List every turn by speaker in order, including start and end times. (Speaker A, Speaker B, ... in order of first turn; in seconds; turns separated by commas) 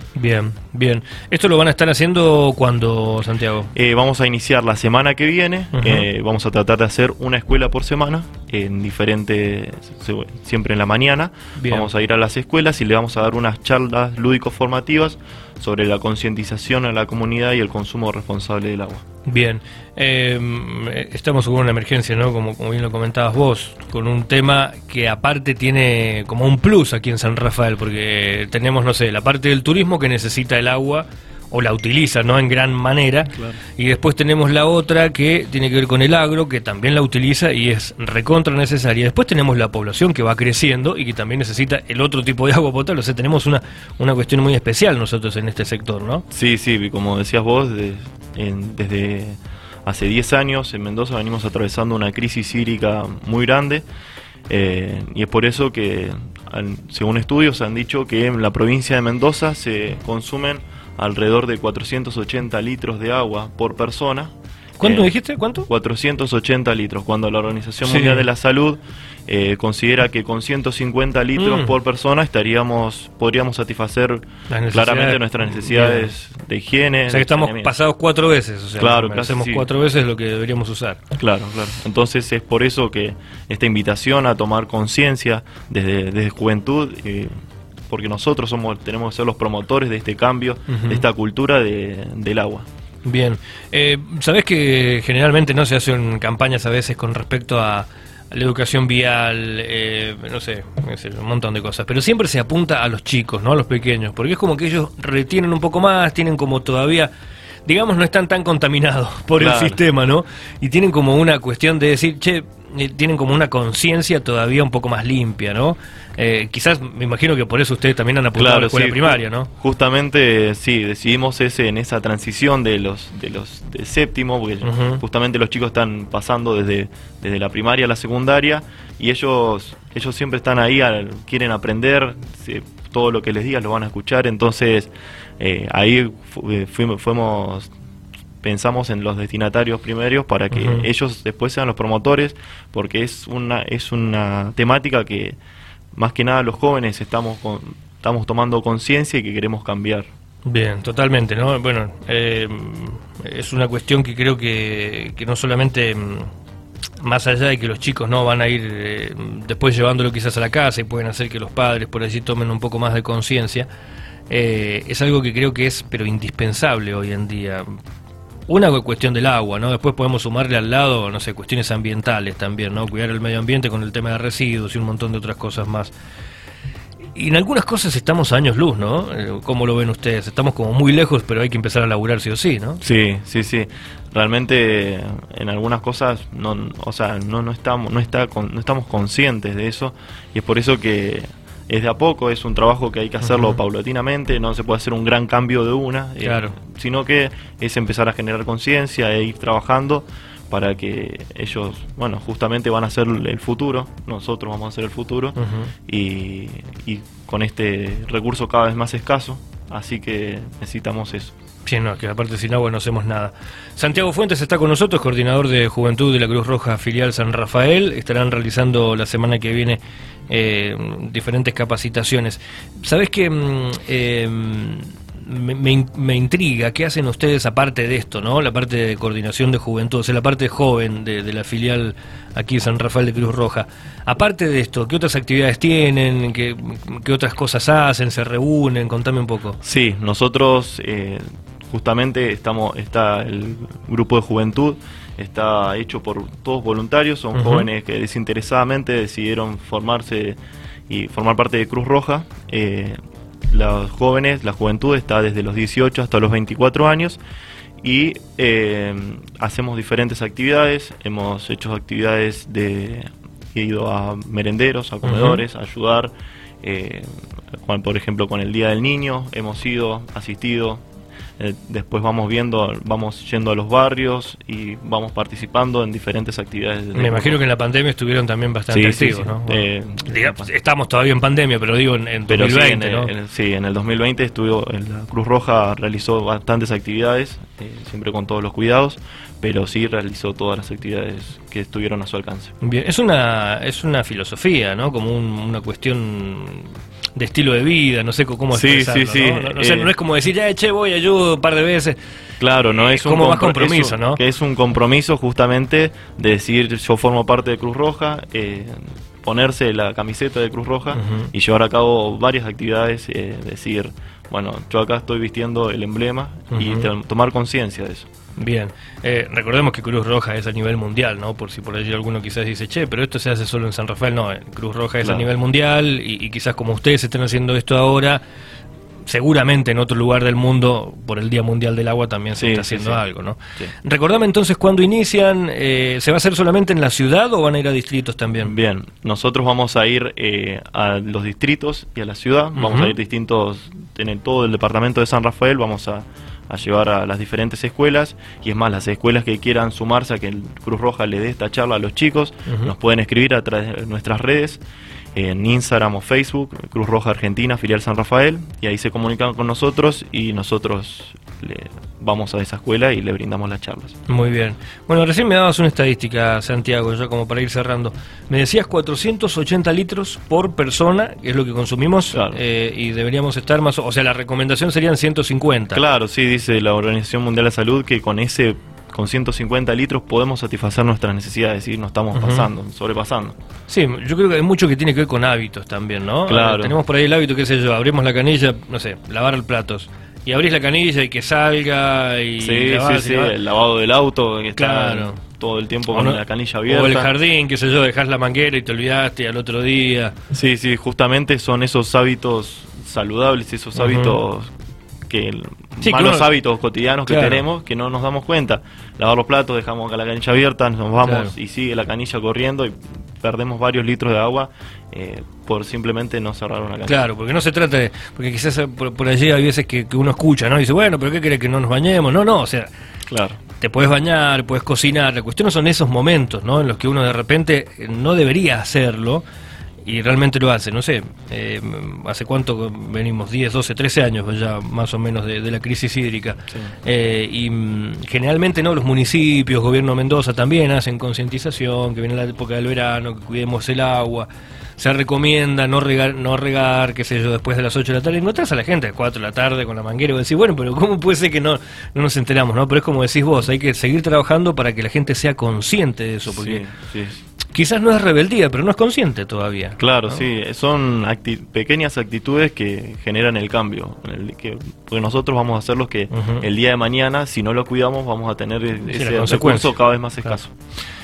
Speaker A: 0.2-3.7, Speaker B: 3.7-19.1, Speaker A: 5.8-6.1, Speaker A: 11.6-11.9, Speaker A: 19.3-46.2, Speaker B: 46.3-53.9, Speaker B: 54.5-64.3, Speaker A: 64.8-65.7, Speaker B: 64.8-65.1, Speaker B: 65.7-77.7, Speaker A: 67.8-68.3, Speaker A: 71.4-71.8, Speaker A: 74.5-76.1, Speaker A: 77.1-81.0, Speaker B: 78.8-79.7, Speaker B: 81.2-87.3, Speaker B: 87.9-92.7, Speaker A: 90.7-91.0, Speaker A: 93.0-107.1, Speaker A: 107.7-119.5, Speaker B: 109.4-109.8, Speaker B: 118.4-137.7, Speaker A: 124.6-125.0, Speaker B: 138.4-145.4, Speaker A: 140.5-140.9, Speaker B: 145.9-150.1, Speaker A: 150.5-156.3, Speaker A: 157.0-163.7, Speaker A: 164.3-167.7, Speaker A: 168.5-175.9, Speaker A: 177.2-182.8, Speaker B: 182.8-211.3, Speaker A: 193.2-193.6, Speaker A: 196.2-196.6, Speaker A: 205.4-205.7, Speaker A: 211.7-239.6, Speaker B: 239.6-253.0, Speaker A: 247.3-247.7, Speaker B: 253.5-257.2, Speaker B: 257.8-267.1, Speaker A: 265.0-265.4, Speaker B: 267.6-270.8, Speaker B: 271.4-277.4, Speaker A: 276.9-283.1, Speaker B: 278.7-280.5, Speaker B: 282.3-292.5, Speaker A: 292.6-302.0, Speaker B: 298.5-299.9, Speaker B: 302.4-318.1, Speaker A: 302.8-304.2, Speaker A: 310.9-311.3, Speaker A: 316.5-316.9, Speaker A: 318.4-328.2, Speaker B: 325.0-325.3, Speaker A: 329.1-338.5, Speaker B: 332.4-333.0, Speaker B: 338.4-354.6, Speaker A: 342.6-342.9, Speaker B: 355.1-364.0, Speaker A: 364.1-375.8, Speaker B: 375.7-383.3, Speaker A: 382.1-382.5, Speaker A: 383.7-393.4, Speaker B: 386.3-386.8, Speaker B: 392.4-397.1, Speaker A: 394.6-395.2, Speaker A: 395.9-400.1, Speaker B: 400.3-404.5, Speaker A: 403.8-404.2, Speaker B: 405.1-417.0, Speaker A: 405.8-406.3, Speaker A: 407.1-407.4, Speaker A: 411.0-411.3, Speaker A: 416.9-422.7, Speaker B: 423.1-423.4, Speaker A: 423.6-429.2, Speaker A: 429.9-444.3, Speaker A: 444.8-456.7, Speaker B: 456.3-457.2, Speaker A: 457.5-460.2, Speaker B: 459.8-470.5, Speaker A: 466.1-466.4, Speaker A: 468.8-470.4